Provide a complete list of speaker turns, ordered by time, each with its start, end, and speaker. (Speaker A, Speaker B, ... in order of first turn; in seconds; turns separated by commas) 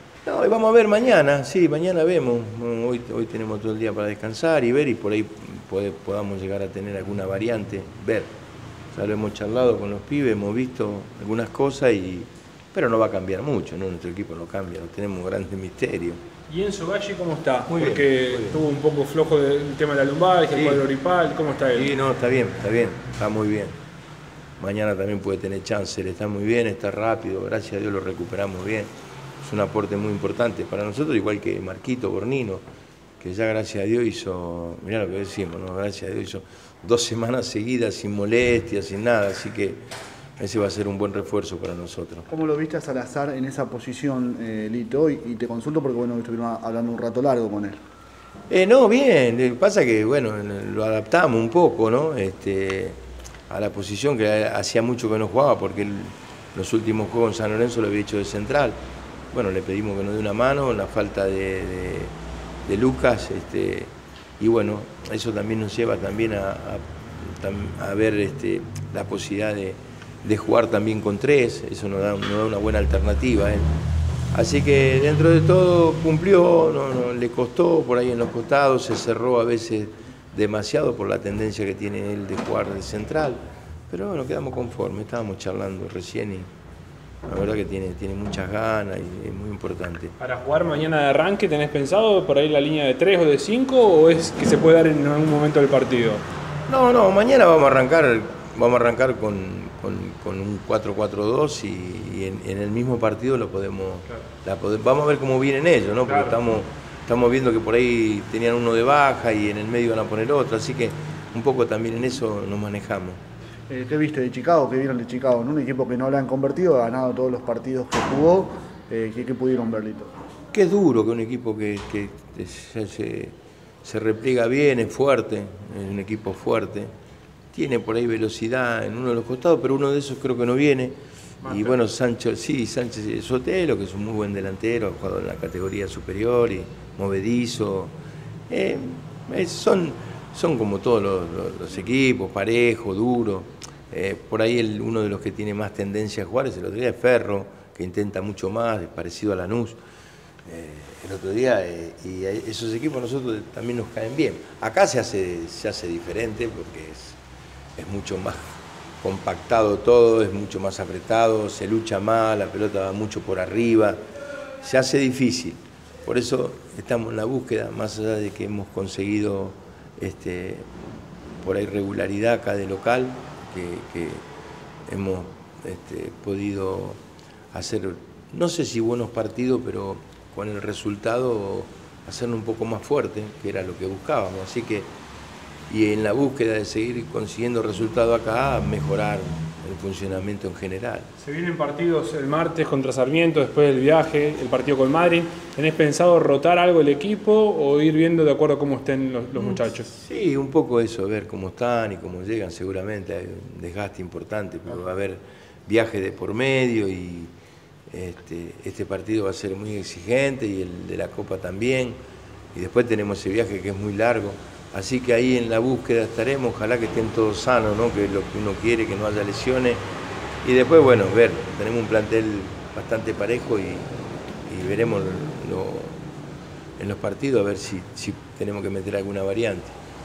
Speaker A: 0.2-8.3, Speaker A: 8.9-16.2, Speaker B: 16.5-21.9, Speaker A: 17.7-18.6, Speaker A: 20.5-20.8, Speaker A: 21.7-23.8, Speaker A: 24.6-28.9, Speaker A: 29.4-32.6, Speaker A: 33.2-39.8, Speaker A: 40.4-42.3, Speaker C: 42.3-47.8, Speaker A: 48.5-58.8, Speaker A: 59.3-62.1, Speaker A: 62.6-73.7, Speaker A: 74.3-86.5, Speaker A: 87.3-90.1, Speaker B: 90.2-96.2, Speaker A: 96.7-113.2, Speaker B: 106.1-106.4, Speaker C: 113.7-120.1, Speaker A: 120.5-126.9, Speaker A: 127.5-137.9, Speaker B: 131.4-131.8, Speaker A: 138.5-149.8, Speaker A: 150.4-157.2, Speaker A: 157.8-164.0, Speaker A: 164.6-170.7, Speaker A: 171.4-174.2, Speaker A: 174.9-177.0, Speaker A: 177.5-184.9, Speaker A: 185.7-191.1, Speaker B: 191.2-199.9, Speaker A: 199.4-207.3, Speaker A: 207.9-212.0, Speaker A: 212.5-219.8, Speaker A: 220.4-223.9, Speaker A: 224.5-226.0, Speaker A: 226.8-229.7